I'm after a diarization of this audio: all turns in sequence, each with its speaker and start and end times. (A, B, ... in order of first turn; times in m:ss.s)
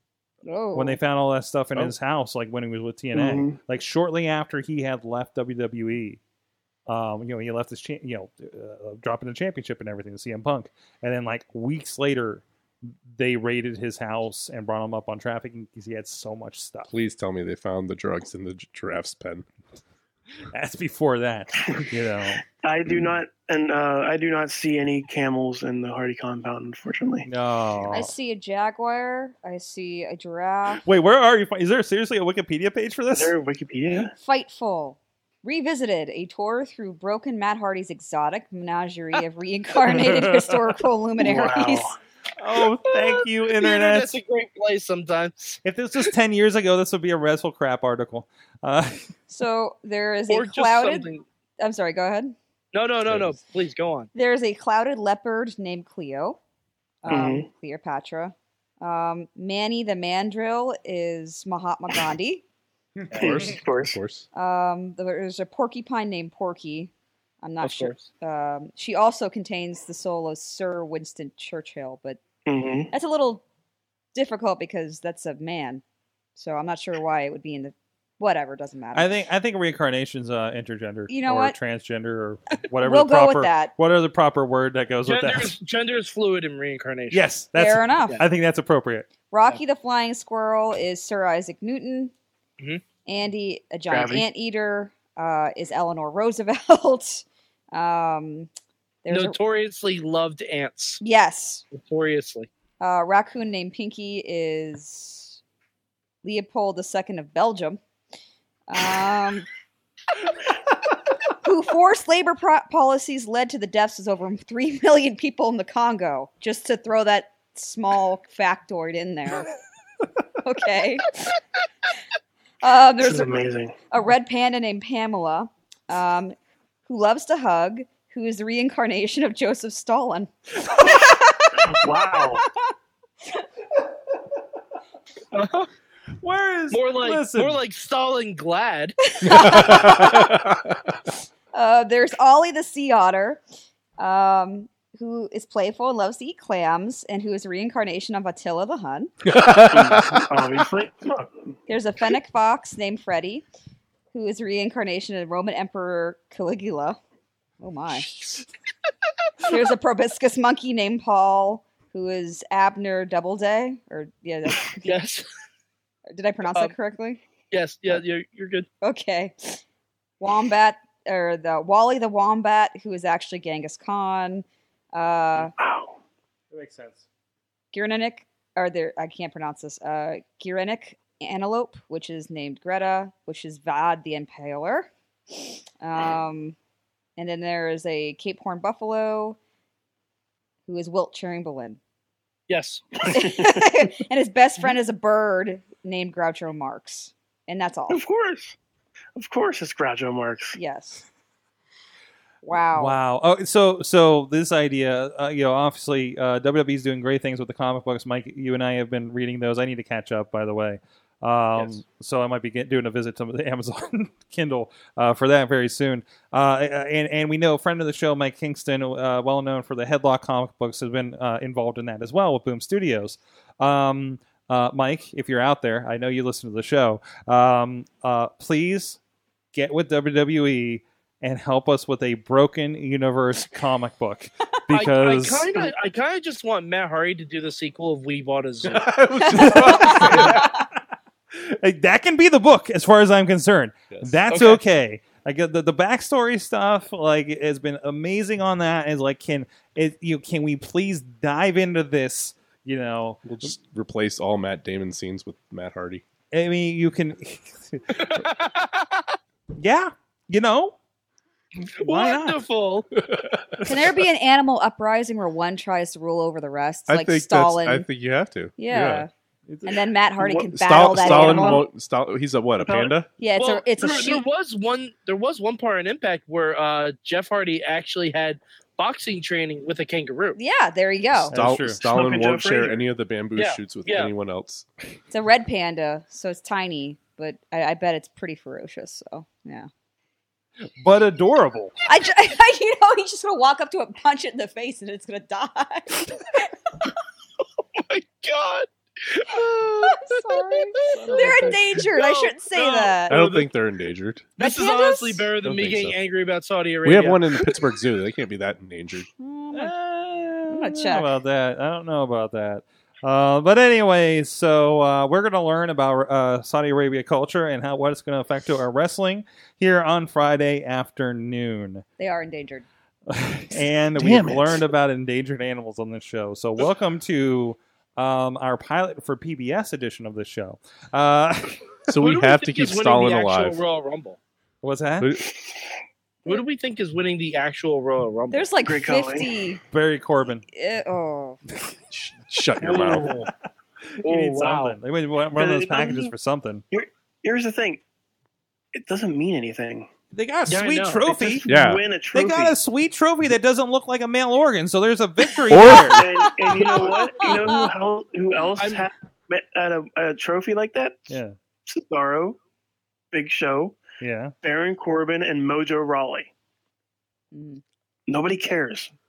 0:00.4-0:01.0 A
0:00.7-0:06.2 B
0:03.1-0:03.6 C
0:06.9-0:12.4 B
0:13.1-0:16.9 B
0:16.9-0:19.4 D
0:20.5-0:22.4 B
0:22.6-0:27.3 C
0:27.2-0:28.1 B
0:27.9-0:30.8 A
0:30.8-0:33.3 B
0:33.1-0:34.1 C
0:34.1-0:41.9 A
0:39.9-0:40.6 B
0:41.2-0:41.9 C
0:42.4-0:44.1 B
0:42.9-0:45.6 E
0:45.6-0:49.1 B
0:49.3-0:51.1 A
0:50.3-0:51.2 E
0:51.6-0:52.3 A
0:52.7-0:54.1 E
0:53.0-0:53.4 D
0:54.1-0:56.4 A
0:57.0-1:02.4 A
0:57.1-0:57.5 C
1:03.1-1:04.0 C
1:03.1-1:04.2 D
1:04.3-1:06.9 A
1:07.4-1:12.2 A
1:07.6-1:08.1 E
1:12.4-1:12.9 C
1:12.9-1:13.4 A
1:14.1-1:15.8 A
1:16.4-1:19.2 A
1:18.9-1:25.6 B
1:21.1-1:21.6 A
1:22.8-1:23.7 A
1:25.0-1:27.3 E
1:27.1-1:29.1 B
1:27.5-1:28.2 A
1:29.3-1:32.1 A
1:33.0-1:38.5 A
1:33.9-1:34.2 C
1:39.0-1:39.4 A
1:39.1-1:41.0 E
1:41.0-1:41.6 A
1:41.7-1:42.5 E
1:42.8-1:45.4 A
1:46.2-1:47.8 A
1:48.7-1:49.5 A
1:51.3-1:59.5 A
2:00.4-2:01.4 A
2:02.6-2:06.3 A
2:03.0-2:03.8 C
2:06.9-2:12.7 A
2:11.6-2:12.4 C
2:15.3-2:15.7 E
2:16.2-2:17.6 B
2:16.7-2:19.1 E
2:19.1-2:20.4 A
2:19.2-2:20.9 D
2:21.5-2:23.4 A
2:24.0-2:29.2 A
2:29.2-2:30.4 D
2:29.6-2:31.6 C
2:31.7-2:33.4 A
2:34.1-2:37.0 A
2:37.6-2:38.4 A
2:39.4-2:44.9 A
2:44.8-2:45.2 E
2:46.1-2:47.2 A
2:47.5-2:48.7 E
2:48.8-2:49.6 A
2:50.2-2:55.5 A
2:55.6-2:55.9 C
2:56.5-2:57.0 B
2:57.7-3:04.9 A
3:05.4-3:06.6 A
3:07.2-3:09.4 A
3:10.7-3:11.8 A
3:12.5-3:13.0 E
3:13.1-3:13.6 C
3:13.1-3:18.0 A
3:17.9-3:18.6 C
3:19.2-3:20.6 C
3:20.6-3:21.0 A
3:22.4-3:23.0 A
3:22.7-3:49.0 B
3:49.5-3:55.7 B
3:54.7-3:58.9 E
3:58.6-4:00.6 D
3:59.3-4:00.6 B
3:59.4-4:00.4 A
4:01.3-4:13.5 B
4:03.9-4:04.4 D
4:04.3-4:04.6 E
4:13.2-4:16.0 D
4:16.3-4:18.2 B
4:17.9-4:19.1 E
4:19.6-4:20.7 B
4:21.6-4:22.9 E
4:21.8-4:22.4 B
4:23.0-4:23.7 D
4:23.6-4:27.9 A
4:26.9-4:29.0 D
4:28.6-4:29.1 A
4:29.5-4:29.8 B
4:29.6-4:31.6 A
4:30.2-4:31.6 C
4:30.6-4:33.1 D
4:32.6-4:32.9 C
4:33.2-4:34.2 A
4:33.4-4:40.4 E
4:40.4-4:41.4 A
4:41.1-4:41.8 B
4:41.3-4:44.6 D
4:41.8-4:42.8 C
4:43.4-4:44.1 E
4:45.1-4:49.7 A
4:50.8-4:51.7 B
4:51.9-4:56.8 A
4:57.7-5:03.5 E
4:59.6-5:03.2 A
5:00.9-5:01.5 B
5:03.1-5:04.3 D
5:04.4-5:07.7 E
5:04.4-5:05.3 A
5:05.4-5:06.0 D
5:06.8-5:09.1 D
5:09.2-5:09.7 A
5:09.5-5:21.8 B
5:10.5-5:11.2 A
5:22.0-5:22.6 A
5:23.1-5:31.7 B
5:24.0-5:24.6 D
5:31.9-5:33.6 D
5:31.9-5:34.2 E
5:34.6-5:35.1 B
5:35.0-5:35.2 D
5:36.2-5:38.5 E
5:38.3-5:39.6 A
5:38.6-5:39.3 C
5:39.7-5:40.4 B
5:40.5-5:41.4 A
5:41.9-5:43.1 D
5:42.6-5:43.3 E
5:42.6-5:43.2 C
5:43.9-5:46.6 B
5:44.0-5:44.6 C
5:44.2-5:44.7 E
5:45.4-5:46.1 C
5:46.7-5:47.8 C
5:48.7-5:49.9 C
5:50.1-5:51.5 B
5:50.5-5:51.1 E
5:51.1-5:52.6 C
5:51.5-5:51.8 D
5:52.1-5:56.1 B
5:55.5-5:56.0 D
5:55.9-6:01.1 C
5:56.4-5:57.7 A
5:58.6-5:58.9 E
6:01.1-6:01.3 B
6:01.6-6:02.4 C
6:03.1-6:03.8 C
6:04.0-6:04.3 B
6:04.4-6:06.3 C
6:07.3-6:07.6 A
6:08.1-6:08.9 C